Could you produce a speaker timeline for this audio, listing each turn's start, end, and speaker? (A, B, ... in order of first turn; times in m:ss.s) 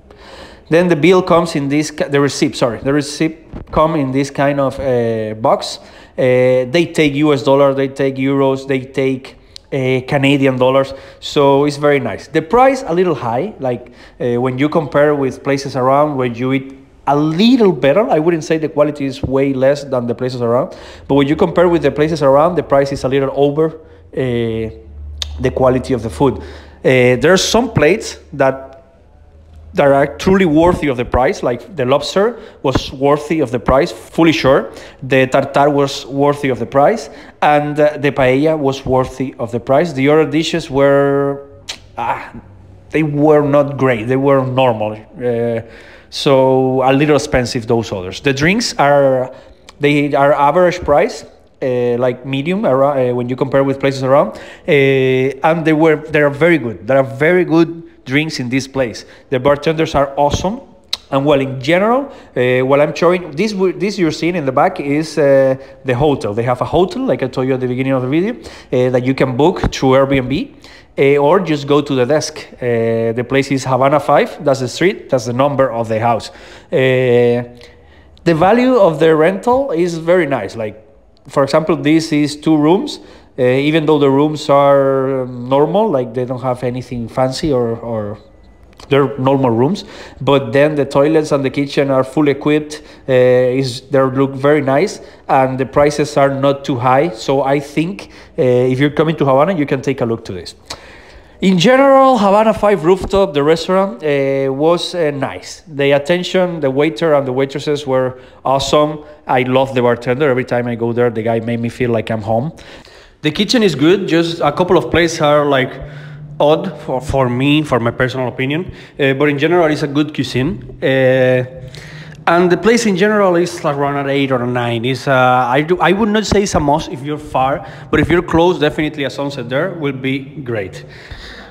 0:00.7-0:24.8 A
0:25.4-0:28.8 A
0:29.7-0:42.3 A
0:42.9-1:17.5 A
1:18.2-1:28.2 A
1:28.9-1:40.6 A
1:41.4-1:52.5 A
1:53.2-1:55.8 A
1:56.4-2:01.5 A
2:02.3-2:10.9 A